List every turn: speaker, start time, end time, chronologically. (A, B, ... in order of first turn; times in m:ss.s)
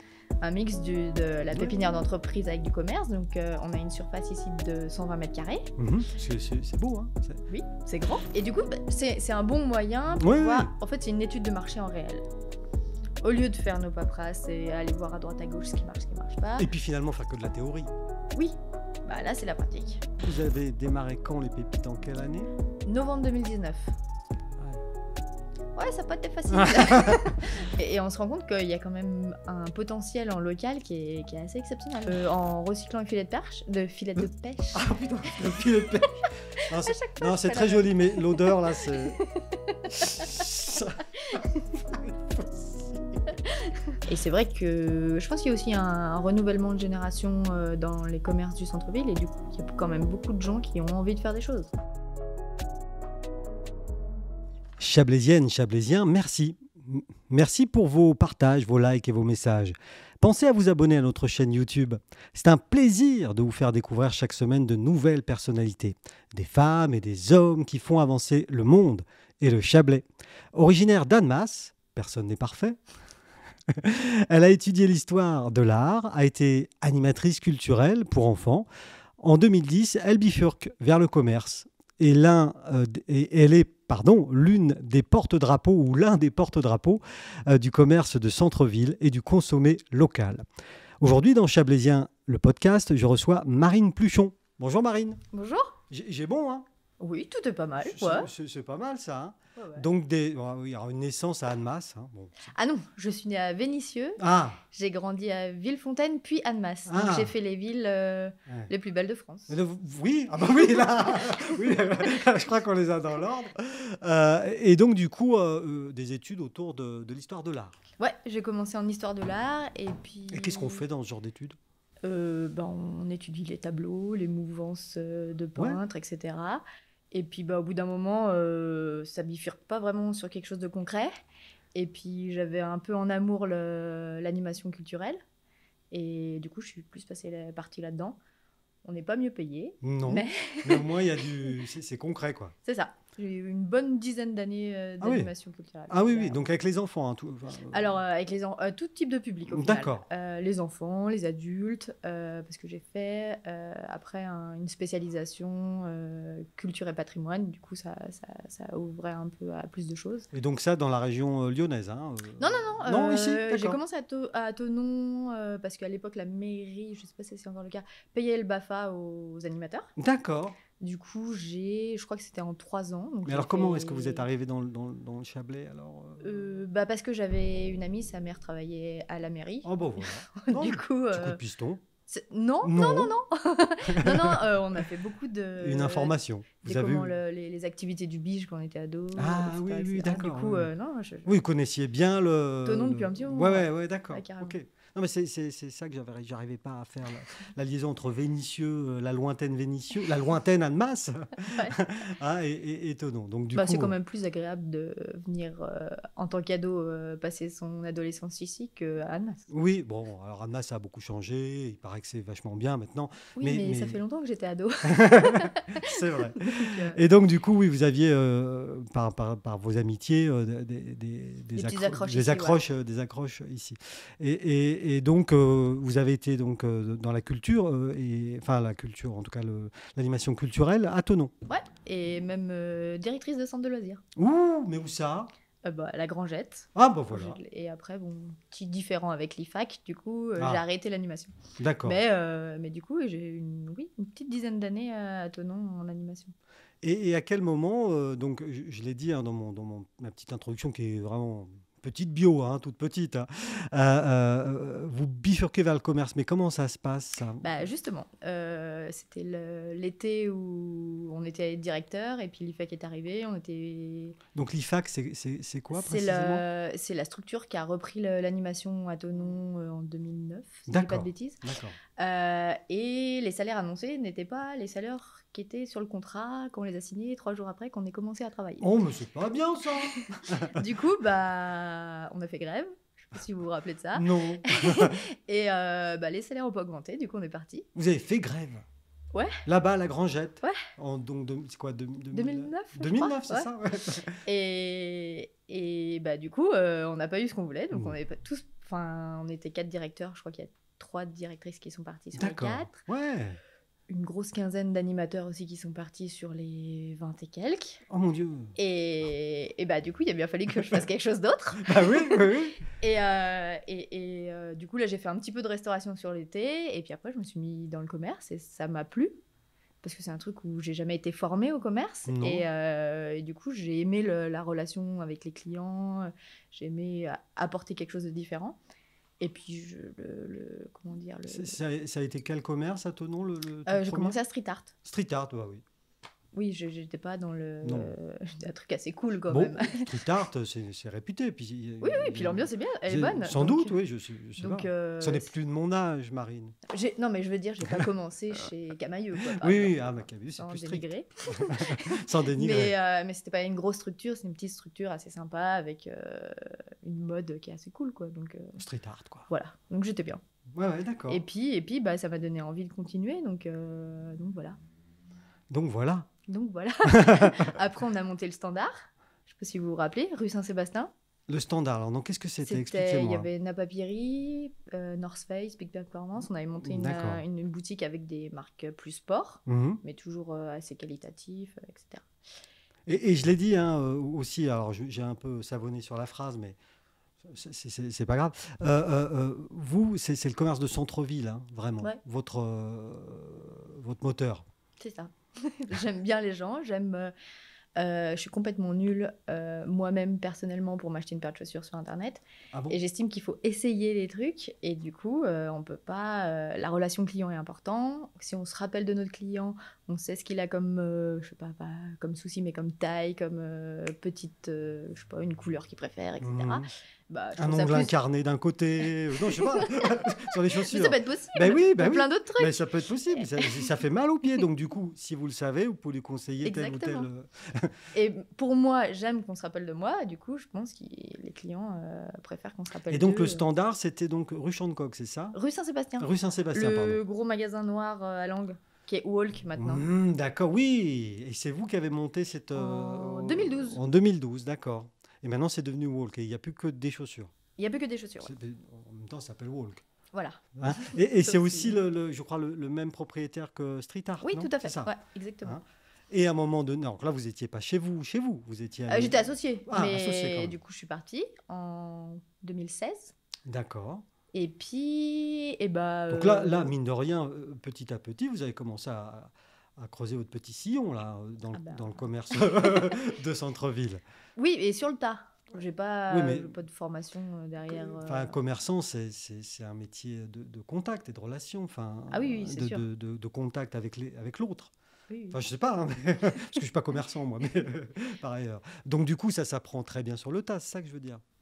0:00.4-0:05.7 A
0:01.5-0:01.9 B
0:05.8-0:07.4 B
0:07.5-0:12.2 A
0:10.2-0:10.7 B
0:13.2-0:16.7 A
0:16.6-0:17.9 B
0:18.3-0:20.0 A
0:20.2-0:22.5 B
0:22.9-0:23.9 A
0:24.6-0:24.8 B
0:25.8-0:34.9 A
0:26.5-0:27.3 B
0:34.8-0:39.2 B
0:35.6-0:40.3 A
0:39.9-0:43.2 B
0:41.2-0:41.6 A
0:44.0-0:51.7 A
0:54.8-1:12.8 B
1:13.7-1:18.7 B
1:19.2-1:30.4 B
1:31.0-1:35.2 B
1:35.3-1:35.8 A
1:35.9-1:36.7 B
1:37.0-1:38.3 A
1:37.8-1:42.3 B
1:39.6-1:39.9 A
1:42.5-1:44.2 A
1:44.2-1:44.6 B
1:44.7-1:49.6 A
1:46.9-1:47.3 B
1:49.5-1:57.8 B
1:51.4-1:52.1 A
1:58.0-2:00.8 A
2:00.3-2:01.6 B
2:02.0-2:11.1 A
2:11.7-2:15.2 A
2:15.9-2:18.2 A
2:18.8-2:21.5 A
2:19.8-2:22.5 B
2:22.6-2:26.4 A
2:25.0-2:25.3 B
2:25.9-2:28.0 B
2:27.7-2:40.3 A
2:29.5-2:30.0 B
2:40.3-2:43.8 B
2:42.4-2:49.9 A
2:50.0-2:50.6 B
2:50.8-2:54.3 A
2:53.3-2:56.6 B
2:56.2-3:01.4 A
2:59.6-3:01.8 B
3:02.1-3:11.4 A
3:02.6-3:03.2 B
3:03.8-3:04.8 B
3:05.6-3:07.2 B
3:09.2-3:10.7 B
3:11.3-3:24.0 B
3:12.6-3:14.6 A
3:21.4-3:21.8 A
3:23.6-3:29.4 A
3:29.5-3:34.0 B
3:33.4-3:37.0 A
3:34.8-3:51.3 B
3:41.6-3:42.6 A
3:51.5-3:54.0 A
3:54.2-3:55.3 B
3:55.6-4:06.3 A
3:56.8-3:57.4 B
4:01.6-4:02.0 B
4:06.8-4:17.5 B
4:17.4-4:24.2 A
4:24.4-4:26.4 B
4:25.7-4:31.4 A
4:30.7-4:31.8 B
4:32.0-4:38.7 A
4:38.6-4:40.6 B
4:39.8-4:47.7 A
4:44.0-4:45.0 B
4:47.8-4:48.6 B
4:49.1-4:49.4 A
4:49.5-4:54.2 B
4:50.4-4:50.7 A
4:52.1-4:53.5 A
4:54.2-5:02.8 A
5:02.2-5:03.4 B
5:03.9-5:07.8 A
5:07.9-5:08.5 B
5:08.6-5:12.2 A
5:11.6-5:12.6 B
5:12.8-5:19.2 A
5:19.8-5:28.6 A
5:22.1-5:22.4 B
5:29.2-5:31.6 A
5:31.3-5:34.2 B
5:33.7-5:34.7 A
5:34.8-5:35.6 B
5:36.3-5:39.9 A
5:37.6-5:37.9 B
5:39.3-5:46.6 B
5:41.8-5:43.8 A
5:44.4-5:45.3 A
5:46.7-5:49.9 A
5:49.2-5:52.8 B
5:50.4-5:58.6 A
5:58.6-5:59.3 B
5:59.3-6:00.2 A
6:00.5-6:01.2 B
6:01.1-6:04.6 A
6:05.5-6:06.1 B
6:06.3-6:10.9 A
6:06.9-6:07.5 B
6:11.3-6:13.3 B
6:12.4-6:22.1 A
6:16.6-6:17.2 B
6:19.5-6:19.8 B
6:22.9-6:26.6 B
6:27.2-6:34.5 B
6:34.8-6:37.1 A
6:37.8-6:57.9 A
6:42.5-6:42.8 B
6:56.2-6:56.7 B
6:57.4-7:07.8 B
6:59.3-7:03.7 A
7:06.4-7:07.1 A
7:07.9-7:13.4 A
7:12.9-7:15.4 B
7:15.3-7:19.8 A
7:16.0-7:17.0 B
7:19.6-7:27.3 B
7:22.6-7:23.8 A
7:27.6-7:28.3 A
7:28.2-7:29.8 B
7:30.1-7:31.8 A
7:30.6-7:34.9 B
7:34.2-7:35.6 A
7:35.4-7:40.6 B
7:38.9-7:43.2 A
7:43.5-7:44.0 B
7:44.3-7:46.7 A
7:46.1-7:54.0 B
7:51.5-7:52.4 A
7:54.4-7:58.4 A
7:56.1-7:56.5 B
7:57.7-8:04.7 B
8:02.1-8:02.8 A
8:05.1-8:05.4 A
8:05.3-8:11.2 B